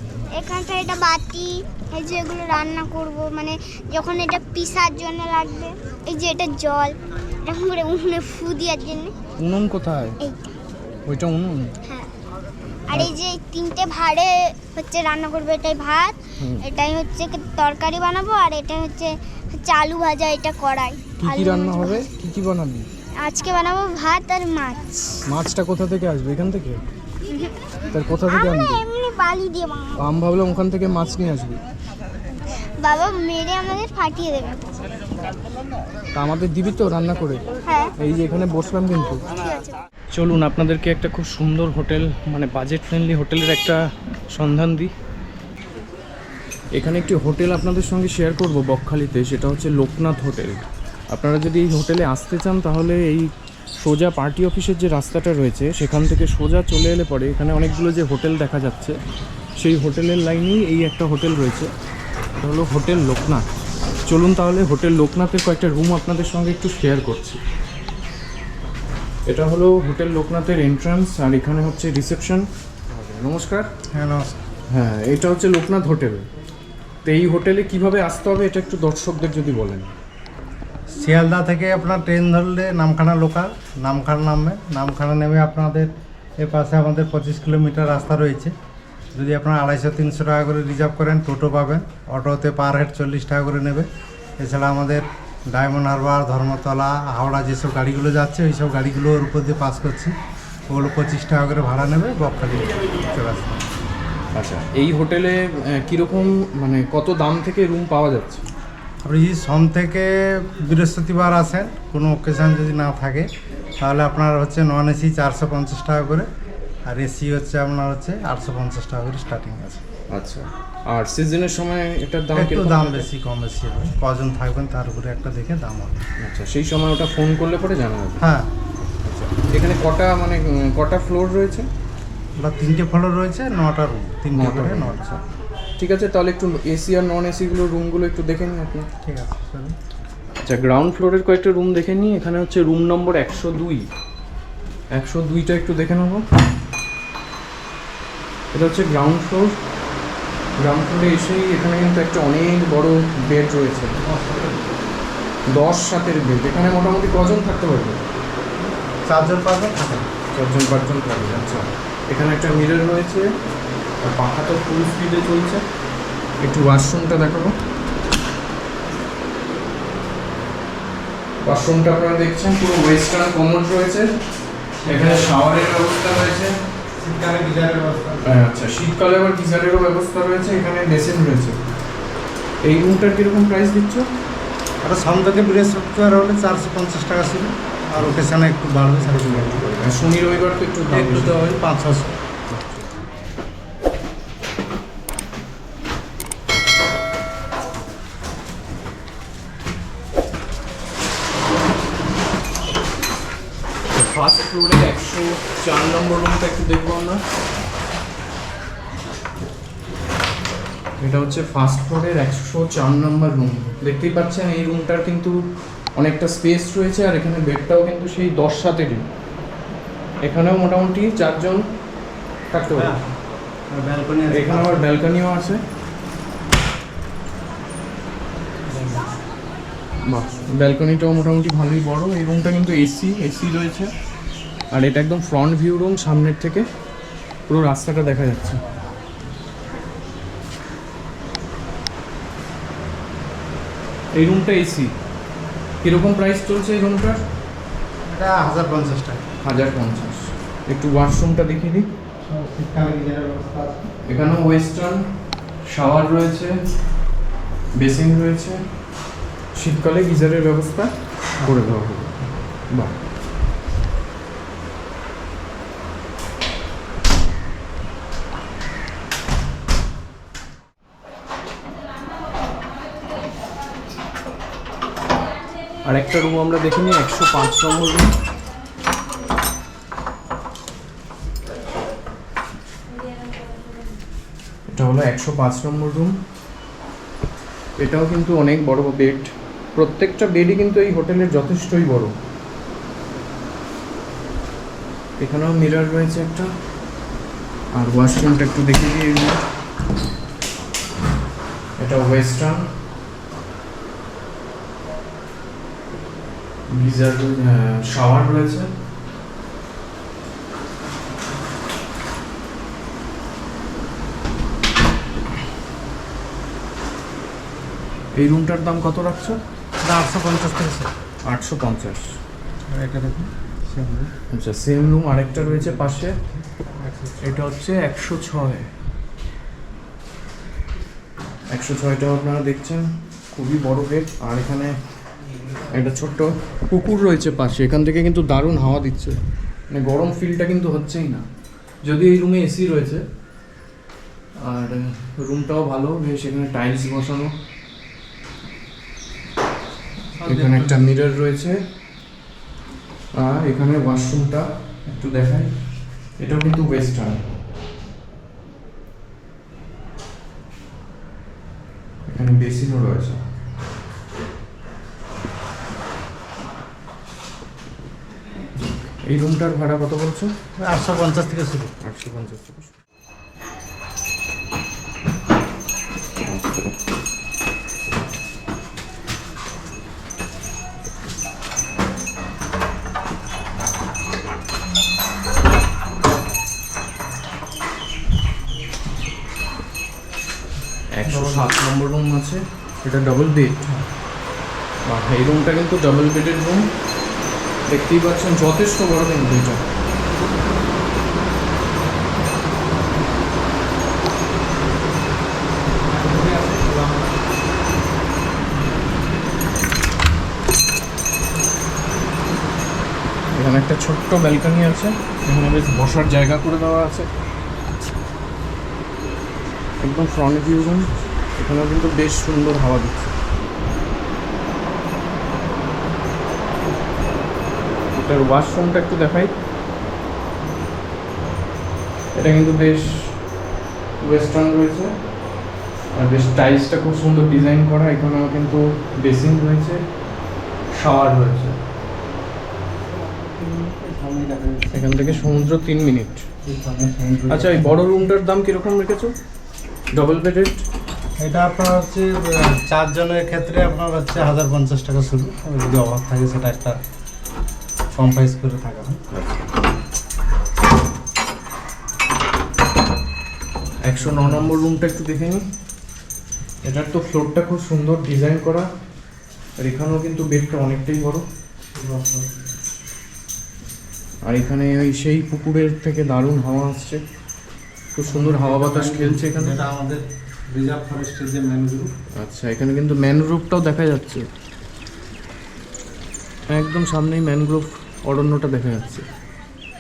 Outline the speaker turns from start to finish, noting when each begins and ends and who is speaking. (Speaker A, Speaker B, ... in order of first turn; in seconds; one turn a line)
Speaker A: 0.3-9.1
Speaker B: 9.4-10.2
Speaker A: 10.2-10.6
Speaker B: 11.1-11.7
Speaker A: 11.8-12.1
Speaker A: 12.9-22.1
Speaker B: 16.4-16.6
Speaker B: 21.2-22.9
Speaker A: 23.2-25.2
Speaker B: 25.3-26.8
Speaker A: 27.3-27.5
Speaker B: 27.9-28.8
Speaker A: 28.1-30.0
Speaker B: 30.0-31.6
Speaker A: 32.5-34.7
Speaker B: 36.1-37.4
Speaker A: 37.6-37.9
Speaker B: 38.0-39.2
Speaker A: 39.3-39.8
Speaker B: 40.1-44.9
Speaker B: 46.7-59.0
Speaker B: 59.6-61.7
Speaker B: 62.4-63.5
Speaker B: 64.0-67.4
Speaker B: 69.3-73.7
Speaker C: 73.9-74.4
Speaker B: 74.7-76.3
Speaker B: 77.0-79.9
Speaker C: 80.9-88.5
Speaker C: 89.1-100.1
Speaker C: 100.7-103.6
Speaker B: 104.3-108.5
Speaker C: 109.0-116.3
Speaker C: 116.9-119.8
Speaker B: 120.1-123.1
Speaker C: 122.3-125.9
Speaker B: 126.2-128.2
Speaker C: 128.2-128.5
Speaker B: 129.0-131.7
Speaker C: 132.3-135.1
Speaker B: 134.3-135.2
Speaker B: 135.8-138.9
Speaker C: 139.0-139.7
Speaker B: 140.4-143.9
Speaker B: 144.9-146.2
Speaker B: 148.5-149.6
Speaker B: 150.6-154.0
Speaker C: 153.9-154.7
Speaker B: 155.5-158.0
Speaker C: 159.0-160.1
Speaker B: 160.3-163.3
Speaker B: 164.0-165.6
Speaker B: 166.4-167.6
Speaker B: 171.4-174.3
Speaker C: 174.8-175.4
Speaker B: 174.8-176.6
Speaker C: 177.0-178.4
Speaker B: 178.2-181.6
Speaker B: 182.6-184.1
Speaker C: 184.8-189.9
Speaker B: 189.0-191.6
Speaker C: 190.9-192.2
Speaker B: 192.5-192.9
Speaker B: 203.9-207.2
Speaker B: 211.0-215.4
Speaker B: 215.9-219.1
Speaker B: 220.2-221.6
Speaker B: 222.5-222.9
Speaker C: 222.7-223.1
Speaker C: 223.7-224.9
Speaker B: 224.3-225.6
Speaker C: 228.7-229.1
Speaker B: 230.1-233.9
Speaker B: 234.7-236.7
Speaker B: 237.5-238.6
Speaker B: 244.1-244.9
Speaker B: 245.8-247.2
Speaker C: 248.1-249.2
Speaker B: 249.4-251.9
Speaker C: 252.2-253.9
Speaker B: 254.1-256.6
Speaker B: 257.8-263.0
Speaker C: 261.4-261.7
Speaker B: 275.8-278.1
Speaker B: 284.7-286.2
Speaker B: 287.8-292.1
Speaker B: 295.2-296.5
Speaker B: 297.7-299.4
Speaker B: 301.8-302.7
Speaker B: 306.7-308.8
Speaker B: 318.1-319.4
Speaker C: 319.8-320.9
Speaker B: 321.2-322.2
Speaker C: 322.7-324.1
Speaker B: 324.3-326.2
Speaker C: 325.4-327.4
Speaker B: 327.2-328.7
Speaker B: 331.5-334.8
Speaker B: 335.7-341.2
Speaker B: 341.8-343.0
Speaker B: 344.4-347.4
Speaker C: 350.1-350.9
Speaker B: 350.2-351.6
Speaker B: 353.1-357.3
Speaker B: 362.1-363.2
Speaker B: 369.0-370.3
Speaker C: 370.6-371.7
Speaker B: 371.8-372.7
Speaker B: 390.9-393.7
Speaker C: 391.0-391.5
Speaker B: 394.9-396.7
Speaker B: 397.7-399.6
Speaker C: 405.8-407.2
Speaker B: 413.3-417.1
Speaker B: 419.8-423.2
Speaker B: 427.9-429.3
Speaker B: 432.1-433.3
Speaker B: 434.0-439.9
Speaker B: 440.7-441.6
Speaker C: 442.8-445.5
Speaker B: 444.7-446.3
Speaker C: 446.4-447.9
Speaker B: 447.3-449.1
Speaker B: 449.9-450.6
Speaker C: 451.2-456.8
Speaker C: 457.9-459.0
Speaker B: 463.8-465.4
Speaker C: 463.9-464.6
Speaker B: 466.6-468.7
Speaker B: 469.6-471.2
Speaker C: 471.7-472.6
Speaker B: 474.2-477.0
Speaker B: 477.9-479.6
Speaker C: 478.1-481.9
Speaker B: 482.1-484.3
Speaker B: 486.5-489.1